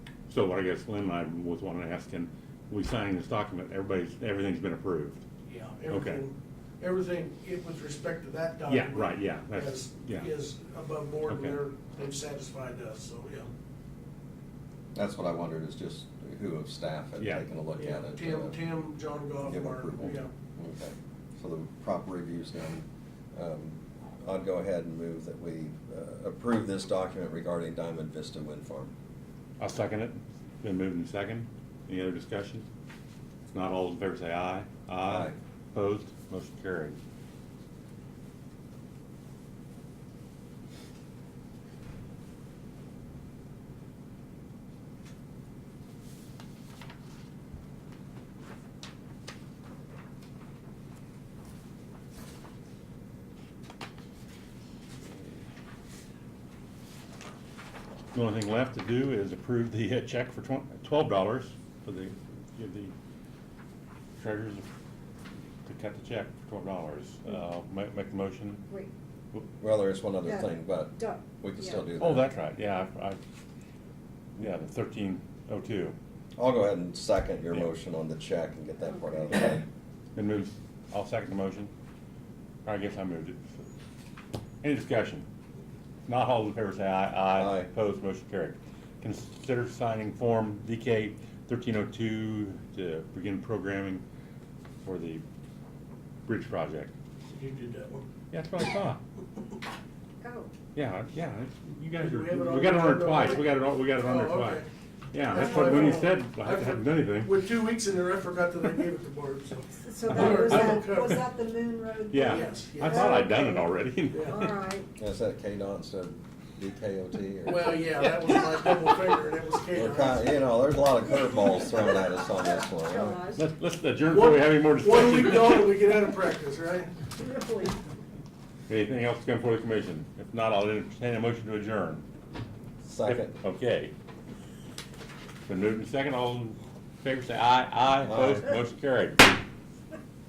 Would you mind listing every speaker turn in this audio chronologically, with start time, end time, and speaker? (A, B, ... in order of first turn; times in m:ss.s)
0:00.3-0:05.2 A
0:05.4-0:13.5 B
0:05.9-0:06.2 A
0:08.7-0:10.3 A
0:11.3-0:11.6 A
0:14.9-0:18.6 C
0:17.2-0:17.4 A
0:17.8-0:20.3 B
0:19.4-0:28.9 C
0:29.6-0:32.6 A
0:33.5-0:37.0 A
0:35.0-0:35.4 C
0:58.1-1:02.9 A
1:04.2-1:04.6 A
1:05.6-1:08.6 A
1:09.6-1:12.2 C
1:10.2-1:11.8 D
1:12.0-1:13.2 A
1:14.4-1:16.0 A
1:16.4-1:19.6 C
1:20.1-1:21.7 A
1:22.6-1:23.6 A
1:24.6-1:25.3 A
1:26.0-1:34.0 A
1:27.4-1:27.7 C
1:34.8-1:35.2 A
1:36.2-1:36.9 A
1:37.3-1:38.0 B
1:38.3-1:39.0 A
1:40.2-1:40.5 D
1:40.7-1:44.6 A
1:42.0-1:44.6 B
1:45.1-1:47.4 A
1:45.3-1:51.3 B
1:45.6-1:45.9 D
1:49.7-1:54.9 D
1:50.1-1:51.2 A
1:52.1-1:54.5 A
1:52.2-1:53.3 B
1:54.1-1:54.5 B
1:55.0-1:57.8 C
1:57.4-2:00.4 B
1:59.7-2:03.2 C
2:02.5-2:03.4 D
2:03.4-2:05.8 A
2:04.1-2:07.0 B
2:07.2-2:07.8 D
2:08.7-2:12.0 A
2:12.8-2:13.4 C
2:13.0-2:13.9 A
2:15.5-2:19.2 A
2:18.0-2:18.5 C